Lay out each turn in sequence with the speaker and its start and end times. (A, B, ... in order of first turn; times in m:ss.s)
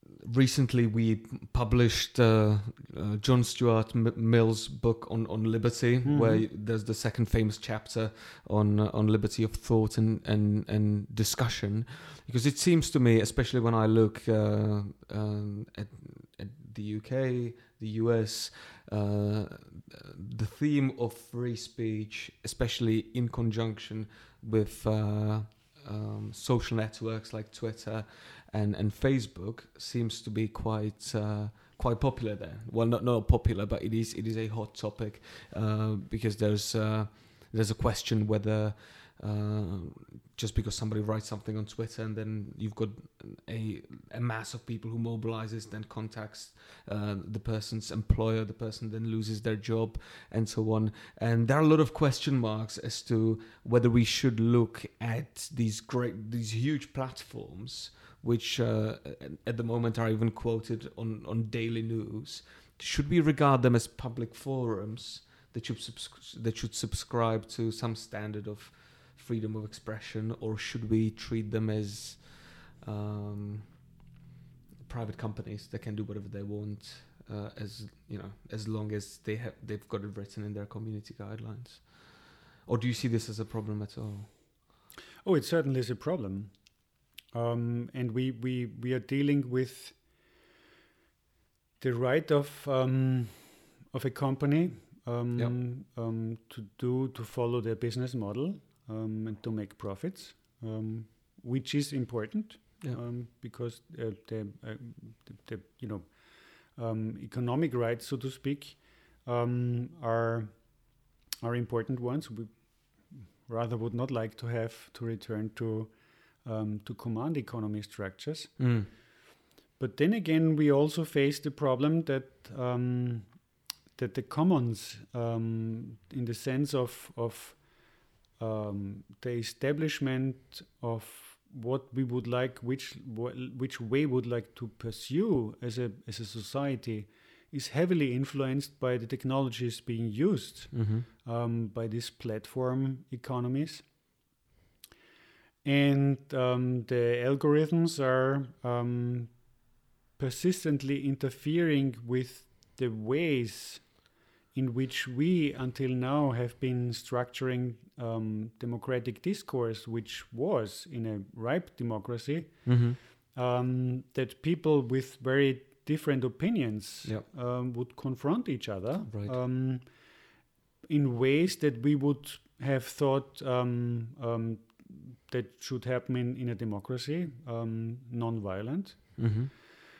0:00.2-1:13.8 A
0:06.0-0:06.5 B
1:14.8-1:24.3 A
1:25.2-1:26.7 B
1:27.3-1:30.0 B
1:31.8-1:50.8 B
1:51.4-1:59.0 B
1:58.6-1:58.9 A
1:59.8-2:03.4 B
2:04.0-2:07.8 B
2:08.4-2:23.9 B
2:20.7-2:21.1 A
2:25.6-2:29.6 B
2:30.2-2:49.9 B
2:42.7-2:43.0 A
2:49.1-2:49.4 A
2:50.9-2:59.4 B
2:59.2-2:59.5 A